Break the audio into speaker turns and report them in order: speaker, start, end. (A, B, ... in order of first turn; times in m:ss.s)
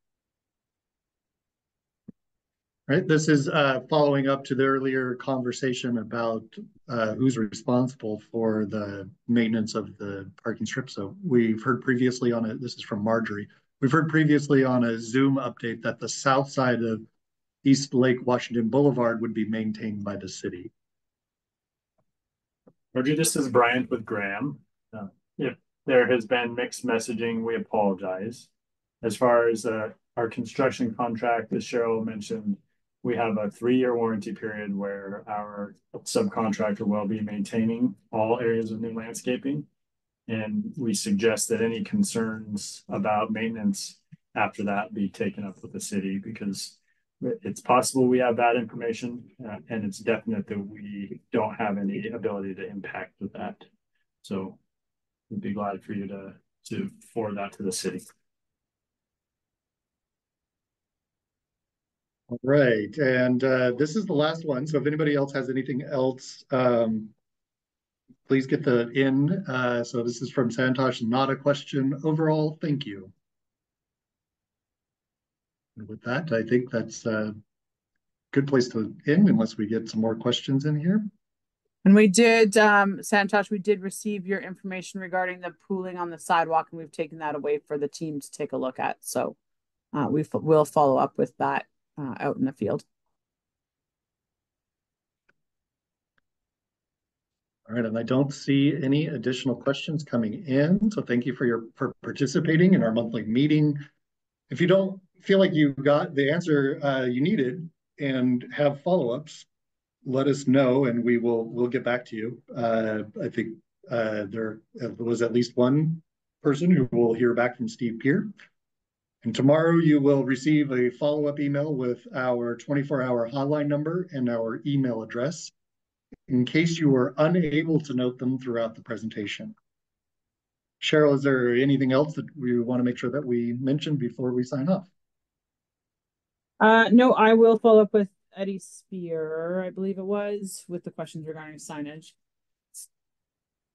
0:02.9-0:17.0 A
0:17.6-0:20.7 A
0:22.9-0:28.5 B
0:29.0-0:39.6 B
0:40.3-0:53.6 B
0:54.2-0:54.6 B
0:55.3-0:58.0 B
1:02.3-1:07.1 A
1:08.3-1:13.1 A
1:15.8-1:17.4 A
1:18.3-1:21.1 A
1:21.8-1:29.4 C
1:29.9-1:32.8 C
1:37.7-1:43.8 A
1:44.5-1:49.4 A
1:50.0-1:58.3 A
1:59.2-2:05.5 A
2:06.3-2:09.5 A
2:10.8-2:14.9 A
2:16.6-2:22.1 C